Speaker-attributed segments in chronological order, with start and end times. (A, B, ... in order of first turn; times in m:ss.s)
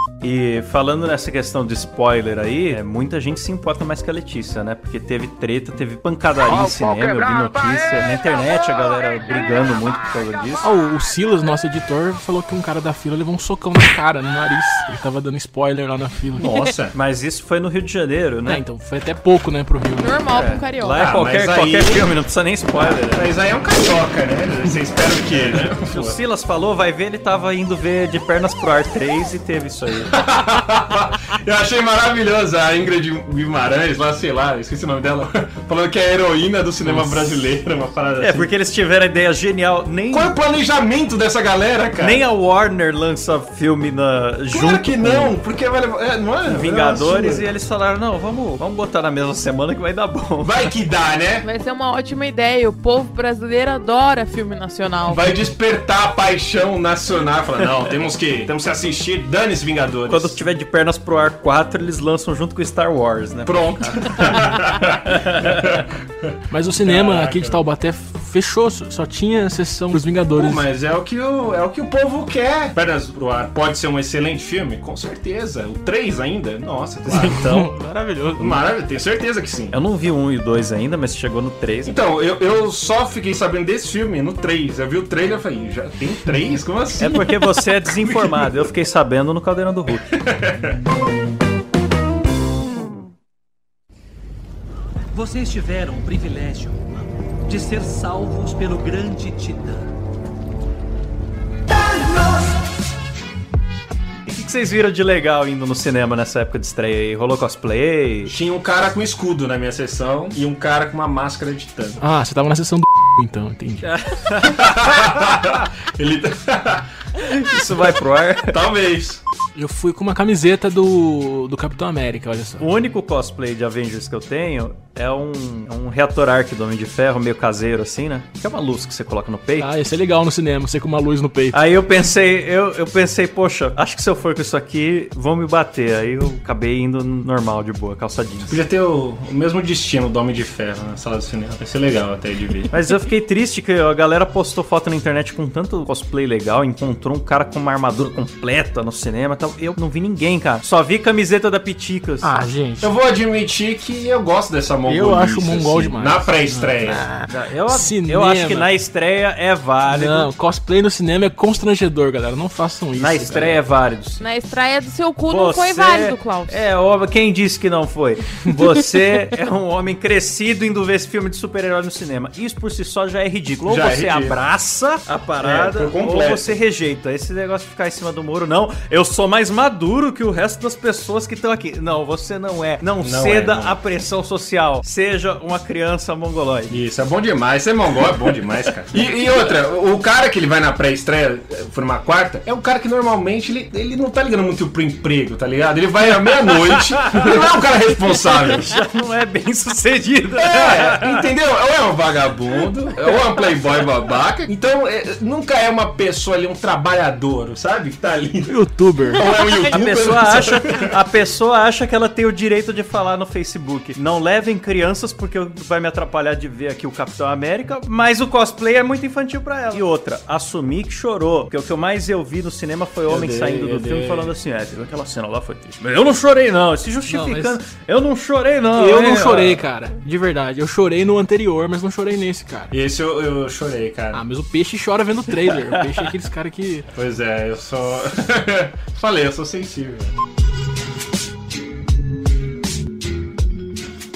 0:00.2-0:10.7 A
0:10.6-0:16.5 B
0:16.4-0:17.0 C
0:16.9-0:18.6 A
0:18.4-0:20.2 B
0:20.0-0:21.1 D
0:20.3-0:23.3 A
0:21.0-0:22.1 C
0:22.8-0:26.2 C
0:25.4-0:30.1 A
0:30.1-0:38.5 C
0:36.8-0:37.4 B
0:38.2-0:40.4 A
0:40.1-0:42.2 C
0:42.0-0:45.3 A
0:44.5-0:47.5 C
0:46.5-0:50.7 A
0:50.4-0:51.5 C
0:51.4-0:55.2 D
0:55.1-1:00.4 C
1:00.1-1:05.8 A
1:03.4-1:06.3 C
1:06.5-1:10.7 B
1:06.8-1:07.6 C
1:10.4-1:17.7 C
1:17.1-1:18.6 B
1:18.4-1:19.8 C
1:19.7-1:22.0 A
1:21.8-1:27.3 C
1:27.0-1:30.1 A
1:27.9-1:28.6 C
1:30.1-1:30.8 C
1:35.1-1:36.9 E
1:37.4-1:39.9 E
1:44.3-1:48.3 A
1:48.3-1:52.0 C
1:52.0-1:53.9 B
1:53.8-1:55.4 A
1:54.4-1:56.9 C
1:57.2-1:58.6 A
1:58.5-1:59.2 C
1:59.6-2:02.7 B
2:02.6-2:09.7 A
2:09.6-2:11.6 B
2:11.5-2:18.6 A
2:18.4-2:22.7 C
2:22.7-2:32.4 A
2:32.2-2:32.9 B
2:32.8-2:37.0 C
2:34.9-2:38.7 B
2:37.3-2:40.3 A
2:39.9-2:43.6 B
2:43.0-2:44.2 A
2:44.2-2:46.6 D
2:45.2-3:06.8 A
2:53.7-2:54.4 C
2:55.4-2:56.6 C
3:03.0-3:03.8 C
3:06.7-3:18.8 C
3:16.3-3:17.5 A
3:18.0-3:21.3 A
3:20.4-3:28.6 C
3:23.1-3:23.5 A
3:28.5-3:29.2 B
3:29.1-3:30.9 C
3:29.2-3:49.6 A
3:43.1-3:44.3 C
3:47.1-3:47.6 B
3:48.8-3:52.8 B
3:52.7-3:54.2 C
3:54.1-3:56.9 B
3:56.9-4:00.1 C